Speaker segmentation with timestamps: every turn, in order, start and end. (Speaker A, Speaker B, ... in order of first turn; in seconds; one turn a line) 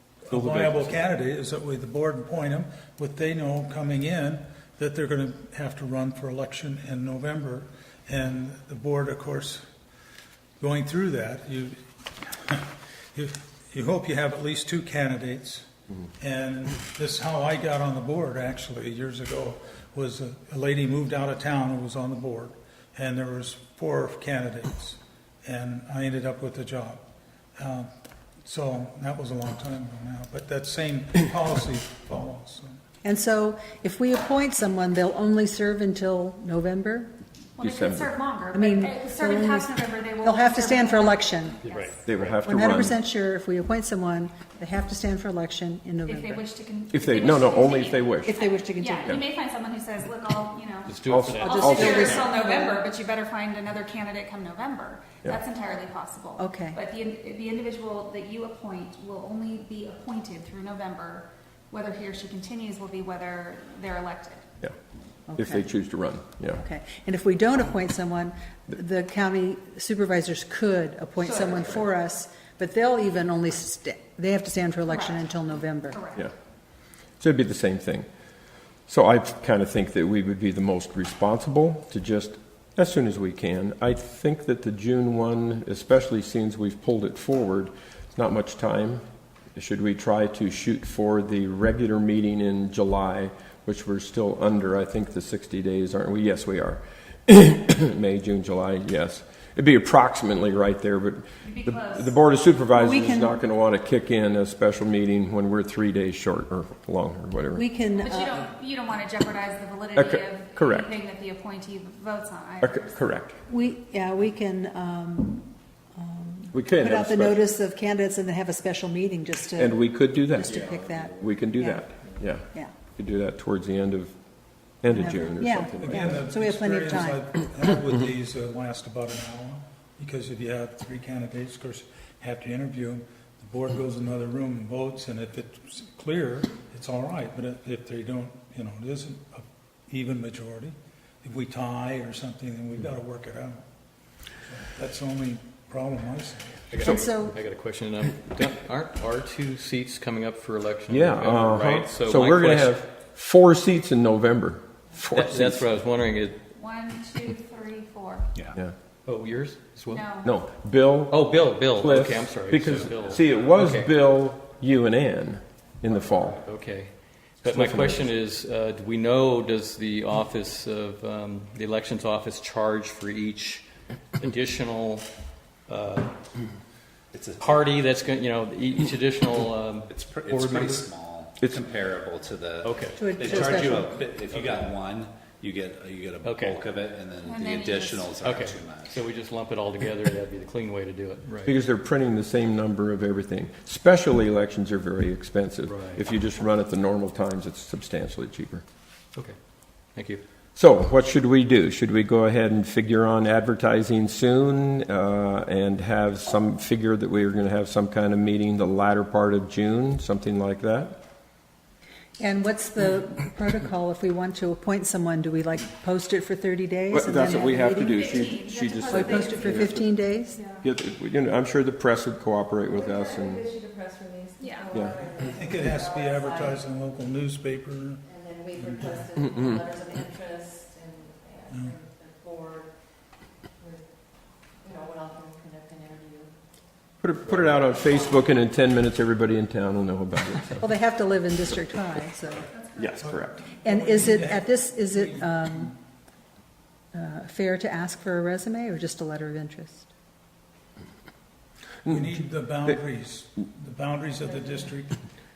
Speaker A: 0.3-9.7
Speaker B: 0.3-0.8
Speaker A: 10.6-27.0
Speaker A: 27.6-27.9
Speaker A: 28.4-32.8
Speaker C: 33.0-37.1
Speaker D: 37.6-42.0
Speaker B: 37.6-38.1
Speaker C: 38.5-41.6
Speaker E: 41.6-42.3
Speaker B: 42.1-43.0
Speaker C: 42.4-46.4
Speaker D: 46.1-64.5
Speaker B: 46.9-48.3
Speaker C: 48.3-49.2
Speaker E: 50.9-52.4
Speaker B: 51.1-52.1
Speaker C: 51.5-52.8
Speaker C: 56.4-56.8
Speaker C: 65.3-65.7
Speaker B: 65.4-66.6
Speaker C: 66.6-76.0
Speaker D: 74.9-75.3
Speaker D: 75.9-76.3
Speaker B: 77.2-78.1
Speaker B: 78.9-107.6
Speaker D: 101.4-102.2
Speaker C: 102.7-103.4
Speaker C: 107.5-108.4
Speaker D: 107.9-113.2
Speaker B: 110.0-110.9
Speaker B: 112.6-113.3
Speaker C: 113.5-121.9
Speaker B: 116.5-117.4
Speaker B: 119.6-124.1
Speaker C: 122.5-122.7
Speaker B: 124.8-126.2
Speaker C: 124.9-127.2
Speaker A: 125.8-143.6
Speaker A: 144.4-146.9
Speaker E: 146.7-152.8
Speaker C: 146.8-147.4
Speaker B: 150.9-155.7
Speaker E: 155.1-156.4
Speaker D: 156.6-158.3
Speaker E: 159.1-160.1
Speaker D: 159.9-160.3
Speaker B: 160.2-166.4
Speaker E: 161.1-163.9
Speaker F: 165.9-166.3
Speaker E: 166.4-173.7
Speaker B: 167.4-168.1
Speaker E: 174.2-175.1
Speaker E: 175.7-176.1
Speaker F: 177.1-177.7
Speaker E: 177.4-180.9
Speaker F: 179.9-189.1
Speaker E: 182.6-183.6
Speaker C: 183.0-184.0
Speaker E: 184.3-184.7
Speaker E: 186.2-186.6
Speaker D: 187.2-188.2
Speaker E: 188.2-191.5
Speaker B: 191.4-198.6
Speaker E: 195.7-196.0
Speaker E: 199.9-200.2
Speaker B: 200.6-211.0
Speaker C: 212.2-218.1
Speaker B: 216.9-219.9
Speaker D: 217.7-219.7
Speaker C: 218.9-220.4
Speaker B: 220.6-223.5
Speaker G: 222.8-226.3
Speaker D: 224.4-224.7
Speaker B: 224.7-225.0
Speaker A: 225.1-228.0
Speaker G: 228.1-232.7
Speaker A: 228.6-229.0
Speaker A: 231.5-231.8
Speaker G: 234.6-236.3
Speaker B: 237.0-240.7
Speaker C: 240.6-242.5
Speaker B: 242.8-243.5
Speaker A: 243.0-245.8
Speaker C: 243.6-245.7
Speaker C: 246.9-249.9
Speaker B: 251.9-252.1
Speaker A: 251.9-255.0